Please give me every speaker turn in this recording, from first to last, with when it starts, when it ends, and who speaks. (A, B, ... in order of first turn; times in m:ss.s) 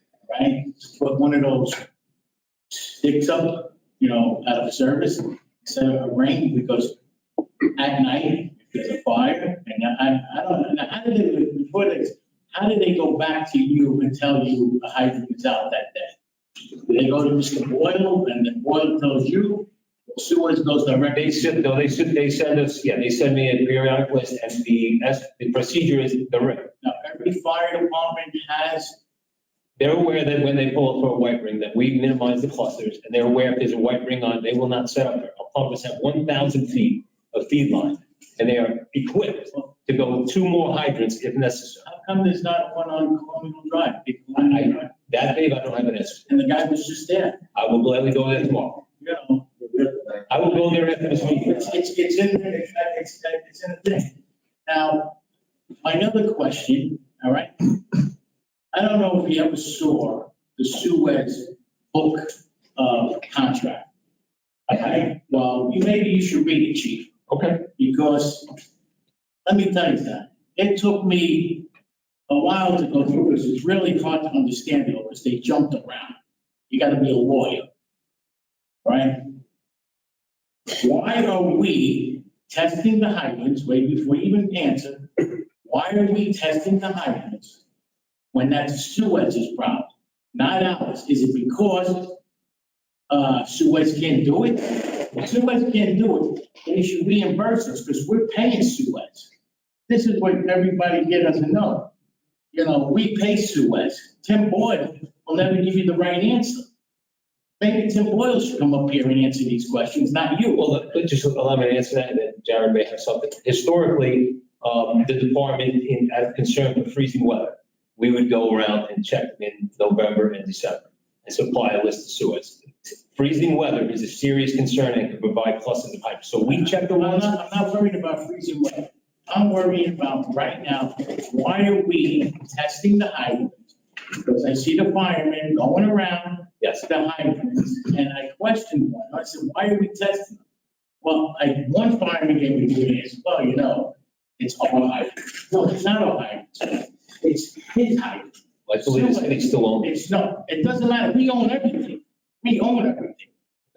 0:00.3-0:01.9 A
0:02.7-0:07.0 A
0:07.6-0:21.7 A
0:21.1-0:26.7 B
0:26.8-0:29.0 A
0:29.8-0:41.8 B
0:41.8-0:45.0 A
0:44.4-0:46.3 B
0:46.2-0:47.4 A
0:47.5-0:48.8 B
0:49.0-0:55.2 A
0:50.3-0:51.7 B
0:55.8-0:58.1 A
0:58.7-1:03.9 A
1:04.7-1:07.1 A
1:07.3-1:07.6 B
1:07.8-1:08.5 A
1:09.4-1:11.7 A
1:12.3-1:16.2 A
1:16.7-1:17.7 A
1:18.8-1:19.3 A
1:20.7-1:27.6 A
1:28.3-1:32.2 A
1:33.1-1:39.3 A
1:39.9-1:41.9 A
1:42.5-1:46.7 A
1:47.6-1:50.7 A
1:50.6-2:07.4 B
2:06.5-2:20.4 A
2:21.0-2:33.3 A
2:28.7-2:29.9 B